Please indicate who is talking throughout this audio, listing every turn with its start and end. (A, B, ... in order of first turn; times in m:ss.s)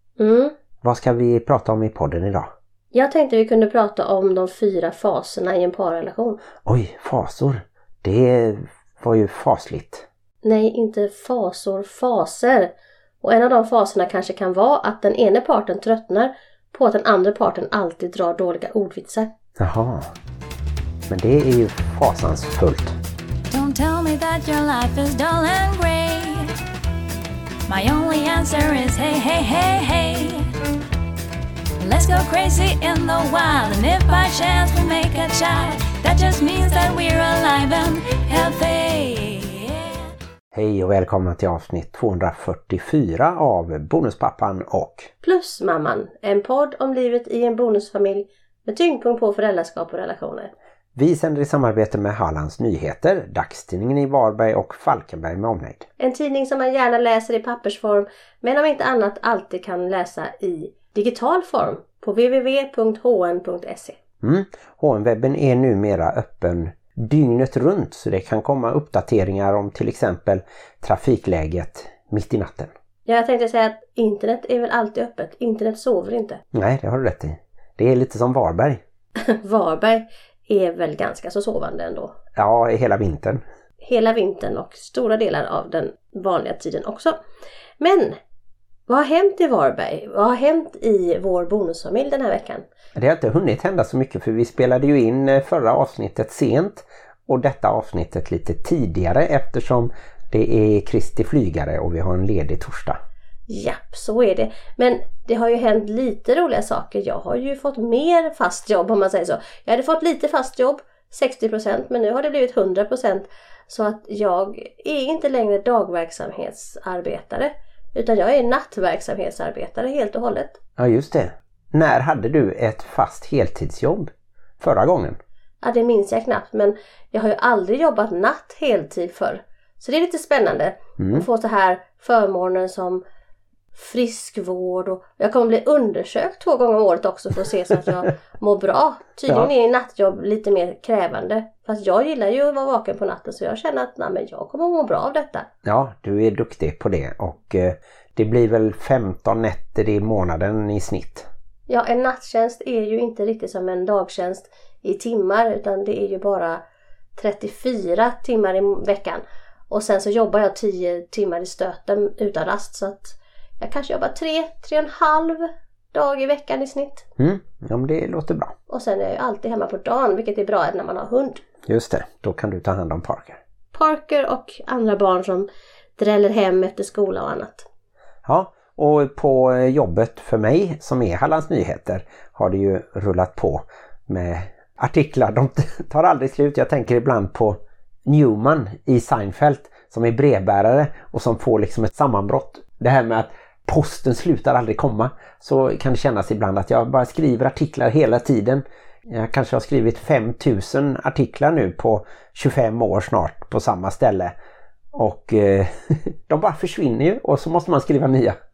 0:00.2-0:00.5 A
0:00.8-0:02.5 B
0:02.9-0:06.4 A
0:06.6-0:10.0 B
0:10.4-0:19.3 A
0:19.6-0:20.1 B
0:21.1-0:23.0 B
0:23.5-0:26.6 C
0:27.7-0:30.5 C
0:31.8-0:39.8 C
0:40.5-0:45.1 B
0:45.2-0:50.5 A
0:50.9-0:55.9 B
0:56.0-1:04.0 A
1:04.2-1:12.7 B
1:13.1-1:16.4 A
1:16.5-1:18.8 B
1:19.2-1:22.2 A
1:22.4-1:23.4 B
1:23.8-1:27.2 A
1:27.8-1:28.2 A
1:28.9-1:32.6 A
1:33.0-1:43.0 B
1:43.5-2:00.6 A
2:00.8-2:05.2 B
2:05.6-2:13.0 A
2:11.0-2:11.2 B
2:13.7-2:25.5 A
2:25.6-2:31.3 B
2:31.7-2:36.6 A
2:37.2-2:47.0 A
2:47.2-2:48.5 B
2:48.7-2:51.4 A
2:51.6-2:53.4 B
2:53.7-2:55.5 A
2:56.0-2:57.6 A
2:58.2-3:24.3 B
3:24.9-3:28.4 B